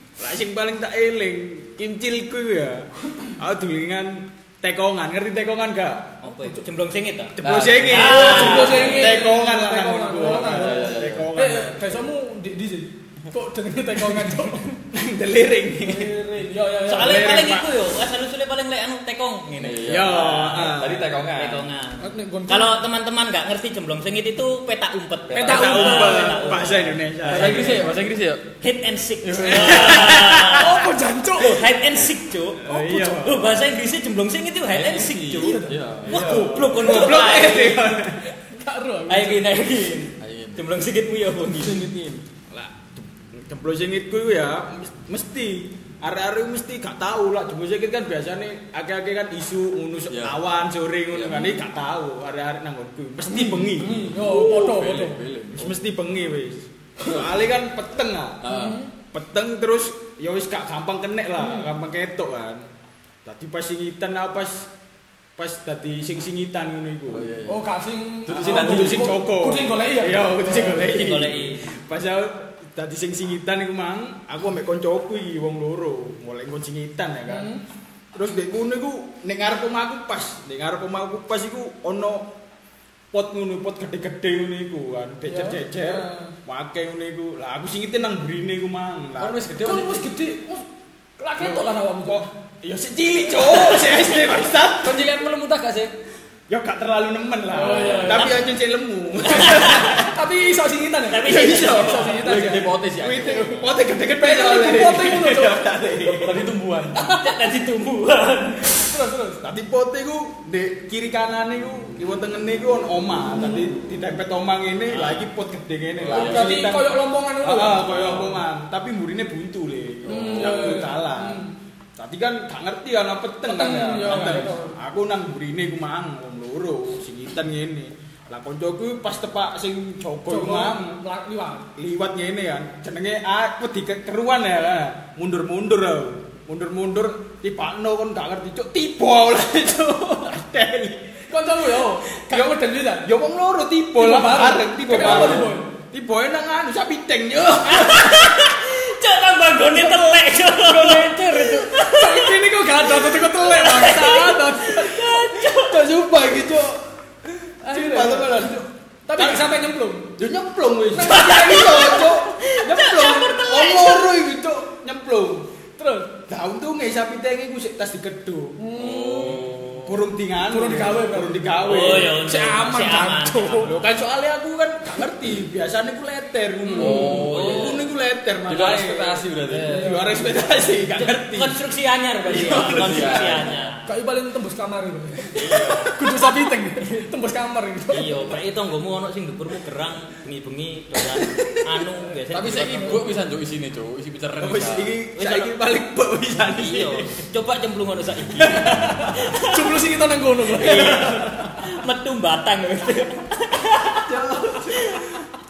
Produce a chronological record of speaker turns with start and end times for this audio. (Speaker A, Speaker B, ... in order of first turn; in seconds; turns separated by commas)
Speaker A: 0.2-6.1, Speaker B: 6.2-9.2, Speaker A: 7.4-12.0, Speaker C: 7.4-8.7, Speaker D: 8.0-14.8, Speaker C: 10.2-11.3, Speaker A: 14.9-16.1, Speaker D: 15.8-17.4, Speaker B: 16.8-20.2, Speaker A: 16.9-17.7, Speaker C: 19.6-21.7, Speaker A: 19.8-21.2, Speaker B: 21.3-27.8, Speaker D: 22.0-22.7, Speaker D: 25.3-26.5, Speaker A: 25.3-27.9, Speaker C: 25.4-26.4, Speaker C: 27.2-28.5, Speaker B: 28.6-37.9, Speaker C: 29.2-30.3, Speaker A: 29.6-30.3, Speaker D: 30.4-31.7, Speaker A: 32.6-33.6, Speaker C: 34.7-36.5, Speaker D: 35.4-35.9, Speaker A: 36.0-38.3, Speaker D: 38.4-39.4, Speaker B: 39.1-41.9, Speaker C: 40.2-40.6, Speaker C: 41.5-42.2, Speaker A: 42.5-54.6, Speaker C: 50.1-50.4, Speaker C: 51.1-51.5, Speaker D: 53.2-55.2, Speaker C: 53.9-55.8, Speaker A: 55.5-58.5, Speaker C: 58.4-58.8, Speaker D: 58.4-58.9, Speaker A: 59.0-62.7, Speaker D: 61.4-61.7, Speaker A: 63.2-64.7, Speaker A: 65.4-67.3, Speaker C: 67.1-67.6, Speaker D: 67.4-70.8, Speaker C: 68.2-69.2, Speaker A: 68.3-77.5, Speaker B: 70.5-71.7, Speaker D: 77.3-77.6, Speaker A: 78.1-82.3, Speaker A: 83.1-89.4, Speaker D: 85.2-86.3, Speaker C: 89.2-90.1, Speaker D: 89.5-90.7, Speaker D: 91.2-92.3, Speaker A: 91.4-95.0, Speaker C: 94.8-95.9, Speaker A: 96.5-100.2, Speaker D: 97.5-98.4, Speaker C: 97.6-98.2, Speaker B: 97.9-98.4, Speaker B: 99.3-99.9, Speaker D: 99.3-102.8, Speaker B: 101.1-102.2, Speaker A: 101.2-106.5, Speaker C: 102.1-103.7, Speaker D: 104.1-105.8, Speaker C: 106.0-107.0, Speaker D: 106.9-107.4, Speaker B: 107.0-108.9, Speaker D: 108.7-109.4, Speaker A: 109.4-121.5, Speaker D: 113.3-113.6, Speaker B: 114.9-115.3, Speaker C: 116.0-116.7, Speaker D: 116.1-118.4, Speaker C: 120.0-120.8, Speaker D: 120.0-121.5, Speaker A: 122.0-130.9, Speaker D: 123.4-124.8, Speaker D: 130.3-131.7, Speaker A: 131.8-141.2, Speaker D: 141.3-143.1, Speaker A: 142.2-148.2, Speaker D: 143.9-145.7, Speaker C: 145.1-145.4, Speaker B: 147.7-155.8, Speaker C: 150.6-151.7, Speaker D: 151.8-155.3, Speaker A: 155.5-159.5, Speaker D: 157.6-160.2, Speaker A: 160.2-165.5, Speaker D: 160.9-162.2, Speaker B: 161.1-164.1, Speaker D: 165.8-166.1, Speaker A: 166.3-168.6, Speaker D: 168.6-169.5, Speaker C: 168.7-170.0, Speaker A: 169.8-172.2, Speaker D: 170.4-173.8, Speaker B: 171.6-173.8, Speaker A: 173.6-181.6, Speaker D: 176.6-177.2, Speaker C: 176.7-177.9, Speaker B: 176.8-177.8, Speaker C: 178.4-179.9, Speaker B: 179.5-179.9, Speaker D: 179.7-180.3, Speaker B: 180.9-183.9, Speaker A: 182.3-183.4, Speaker C: 182.3-183.7, Speaker D: 183.8-188.2, Speaker C: 185.3-185.9, Speaker B: 185.4-185.9, Speaker B: 187.9-193.1, Speaker C: 192.3-194.9, Speaker A: 194.4-197.2, Speaker B: 195.2-195.5, Speaker B: 196.5-199.7, Speaker A: 198.5-199.0, Speaker D: 198.6-201.1, Speaker B: 200.5-204.2, Speaker A: 200.6-201.7, Speaker A: 204.0-205.2, Speaker B: 204.7-205.2